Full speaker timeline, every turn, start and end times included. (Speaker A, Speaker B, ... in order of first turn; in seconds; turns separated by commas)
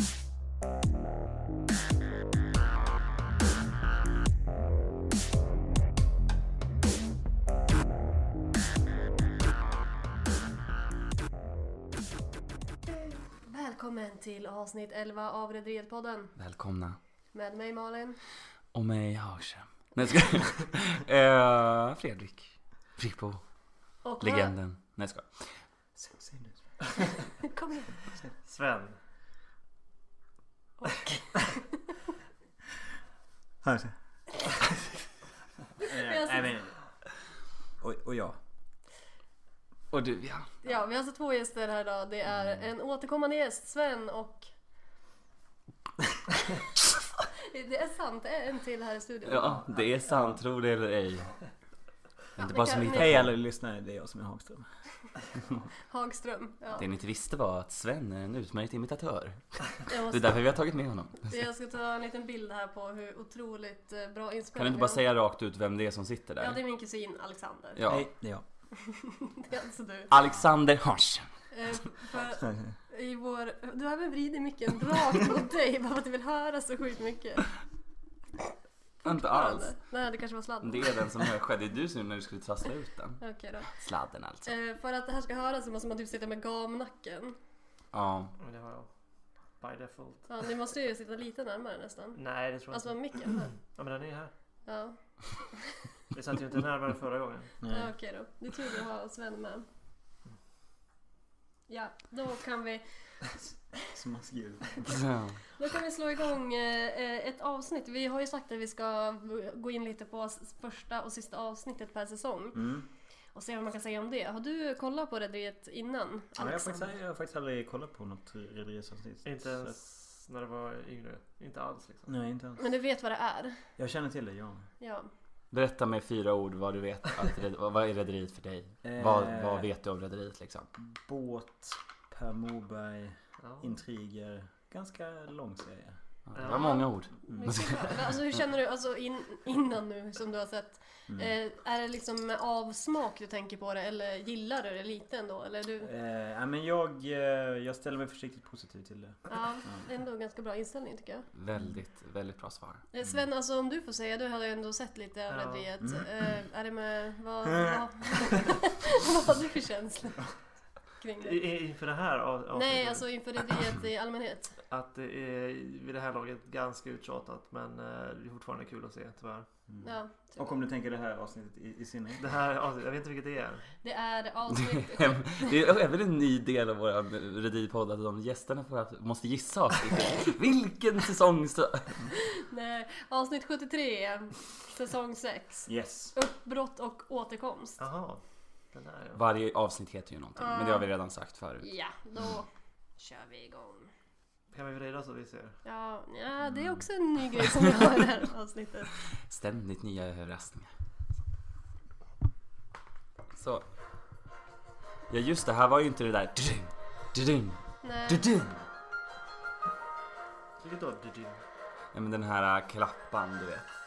Speaker A: 12.8-16.3, Speaker B: 16.4-17.0, Speaker A: 17.3-18.2, Speaker B: 18.7-23.4, Speaker A: 24.0-24.5, Speaker B: 24.2-25.5, Speaker C: 25.9-27.2, Speaker A: 27.4-28.0, Speaker D: 28.4-29.0, Speaker A: 30.8-31.8, Speaker C: 33.6-33.9, Speaker C: 35.8-36.8, Speaker A: 35.8-36.5, Speaker C: 37.8-38.4, Speaker B: 39.9-40.5, Speaker A: 40.6-44.5, Speaker A: 47.5-49.6, Speaker B: 49.2-51.4, Speaker B: 52.3-53.3, Speaker A: 52.4-53.2, Speaker C: 52.9-54.7, Speaker A: 55.9-56.8, Speaker B: 56.8-61.4, Speaker A: 59.9-60.3, Speaker A: 61.3-65.0, Speaker B: 64.5-66.6, Speaker A: 66.4-67.8, Speaker B: 67.8-68.1, Speaker C: 67.8-68.4, Speaker A: 68.9-70.1, Speaker B: 70.1-71.3, Speaker A: 71.5-77.5, Speaker C: 72.3-72.8, Speaker B: 79.0-79.7, Speaker A: 79.2-81.3, Speaker B: 80.6-84.5, Speaker A: 83.2-83.7, Speaker A: 84.4-87.3, Speaker B: 87.9-88.3, Speaker D: 88.4-88.9, Speaker D: 89.6-90.3, Speaker A: 90.3-92.2, Speaker D: 92.2-94.3, Speaker A: 92.7-93.5, Speaker A: 94.7-95.8, Speaker D: 96.1-97.5, Speaker C: 97.6-97.9, Speaker A: 97.7-99.7, Speaker A: 101.7-102.8, Speaker C: 103.7-105.0, Speaker B: 104.9-105.4, Speaker A: 105.6-112.6, Speaker C: 112.5-112.9, Speaker A: 113.3-116.9, Speaker C: 116.4-119.8, Speaker D: 119.2-122.1, Speaker C: 122.1-122.7, Speaker A: 122.6-123.6, Speaker C: 123.8-124.7, Speaker A: 124.8-125.1, Speaker B: 125.5-130.7, Speaker C: 128.8-129.7, Speaker C: 130.8-136.0, Speaker D: 133.4-133.7, Speaker B: 136.3-138.2, Speaker D: 136.3-136.8, Speaker A: 136.4-145.9, Speaker C: 137.3-137.5, Speaker C: 141.1-141.3, Speaker C: 145.8-149.9, Speaker A: 149.3-151.3, Speaker B: 151.3-152.8, Speaker A: 152.9-160.2, Speaker D: 155.3-155.7, Speaker C: 155.8-156.3, Speaker C: 157.6-157.8, Speaker A: 161.0-161.4, Speaker D: 161.2-163.1, Speaker A: 162.5-164.6, Speaker D: 164.7-169.5, Speaker C: 169.7-172.3, Speaker A: 169.8-170.5, Speaker D: 172.2-173.7, Speaker A: 173.8-175.5, Speaker B: 174.5-182.1, Speaker A: 182.3-187.8, Speaker C: 185.7-186.1, Speaker D: 187.8-188.2, Speaker D: 188.7-189.2, Speaker B: 189.2-191.7, Speaker A: 190.3-190.9, Speaker A: 191.6-193.9, Speaker D: 194.5-195.6, Speaker A: 195.6-198.9, Speaker B: 199.2-200.7, Speaker B: 203.3-203.6, Speaker B: 205.1-208.6, Speaker A: 207.8-208.2, Speaker D: 210.6-211.4, Speaker B: 211.9-213.7